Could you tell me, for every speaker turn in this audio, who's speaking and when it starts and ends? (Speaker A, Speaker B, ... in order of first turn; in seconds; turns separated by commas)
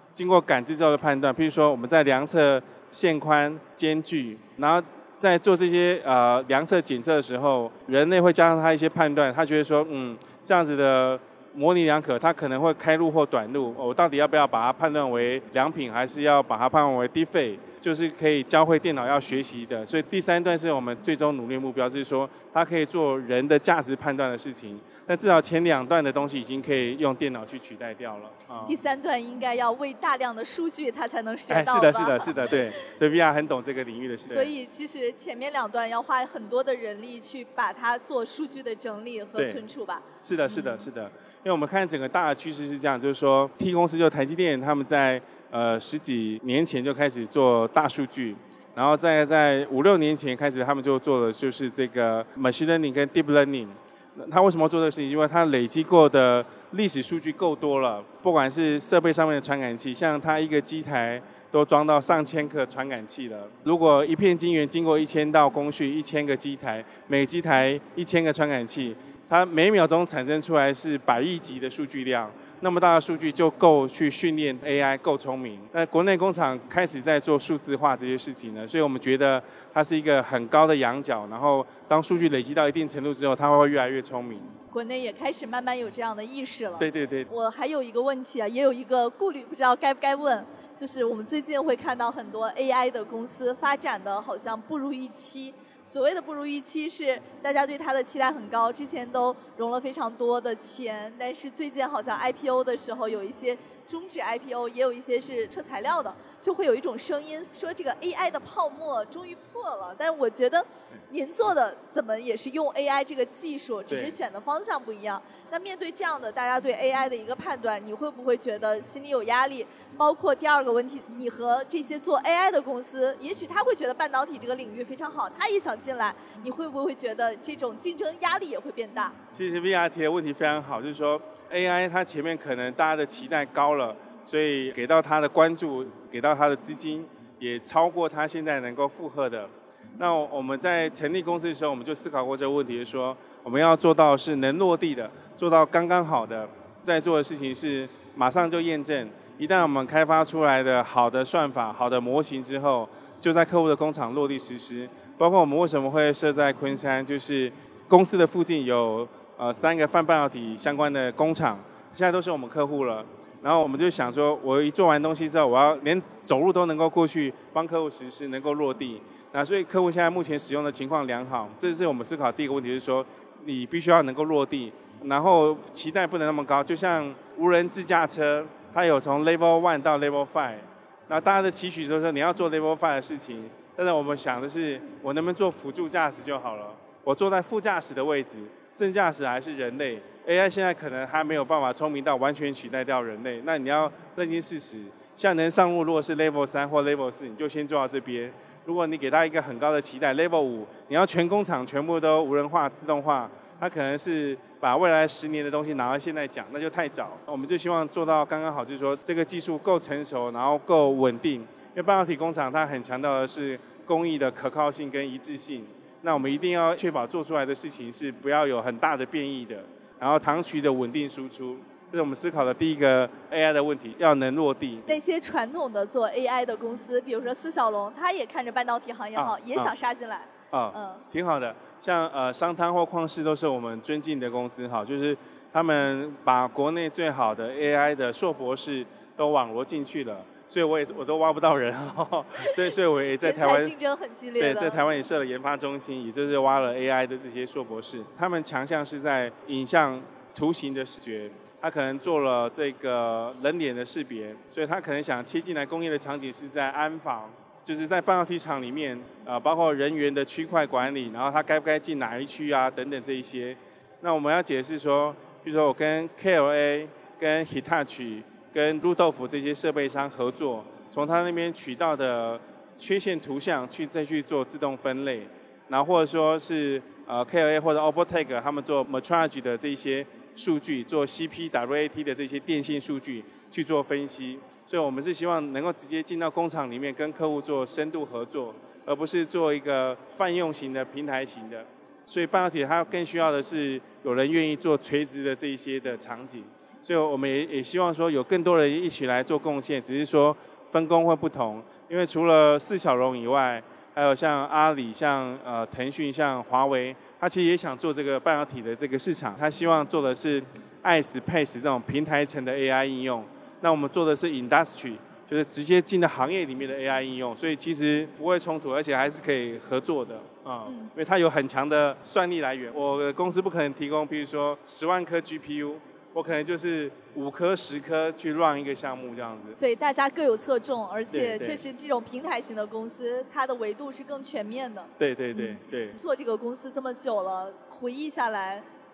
Speaker A: 0.1-28.8, Speaker B: 28.6-32.3, Speaker A: 31.5-34.5, Speaker B: 34.3-40.0, Speaker A: 39.4-39.6, Speaker A: 40.2-84.5, Speaker B: 84.7-129.2, Speaker A: 86.8-87.3, Speaker A: 113.9-114.2, Speaker A: 129.3-224.8, Speaker B: 224.8-231.0, Speaker A: 229.2-229.7, Speaker A: 230.5-243.7, Speaker B: 243.2-244.8, Speaker A: 244.4-329.6, Speaker B: 320.6-320.9, Speaker B: 329.6-335.4, Speaker A: 331.1-331.6, Speaker A: 335.0-336.0, Speaker B: 335.9-338.6